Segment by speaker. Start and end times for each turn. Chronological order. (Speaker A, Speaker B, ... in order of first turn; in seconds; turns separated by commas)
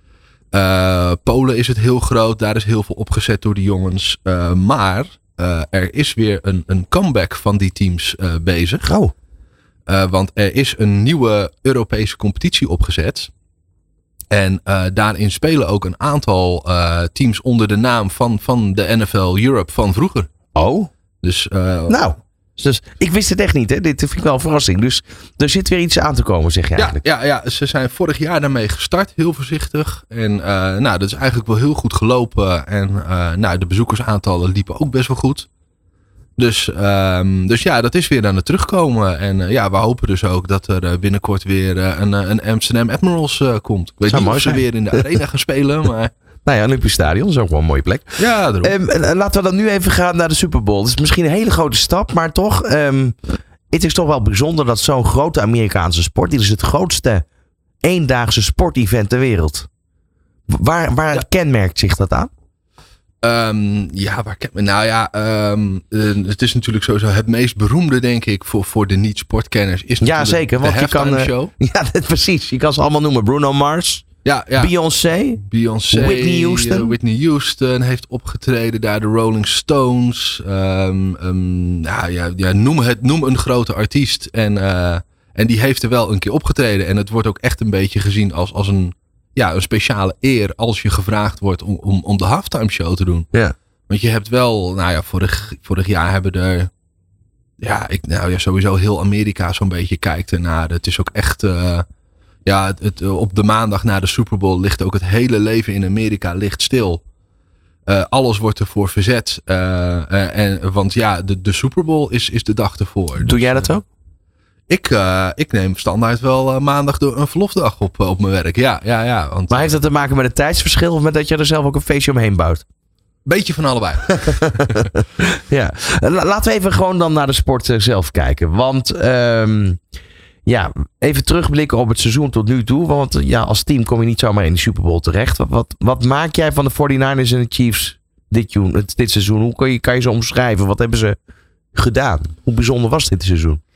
Speaker A: 0.5-8.9, Speaker B: 8.8-9.1, Speaker A: 9.9-13.3, Speaker A: 14.3-20.3, Speaker B: 20.5-20.9, Speaker A: 21.2-22.1, Speaker B: 21.9-27.0, Speaker A: 26.8-35.5, Speaker A: 36.4-46.1, Speaker B: 44.1-45.1, Speaker B: 46.4-57.2, Speaker A: 48.2-48.8, Speaker B: 57.8-59.7, Speaker B: 60.5-62.3, Speaker A: 63.2-71.5, Speaker B: 70.0-74.0, Speaker A: 74.2-74.7, Speaker B: 74.5-76.9, Speaker A: 75.4-93.3, Speaker A: 93.9-96.7, Speaker A: 97.6-101.8, Speaker A: 102.5-107.0, Speaker A: 107.9-113.7, Speaker B: 113.2-113.8, Speaker A: 114.7-119.8, Speaker B: 119.5-122.6, Speaker A: 123.2-124.8, Speaker B: 124.2-129.8, Speaker B: 130.4-141.2, Speaker B: 141.7-143.6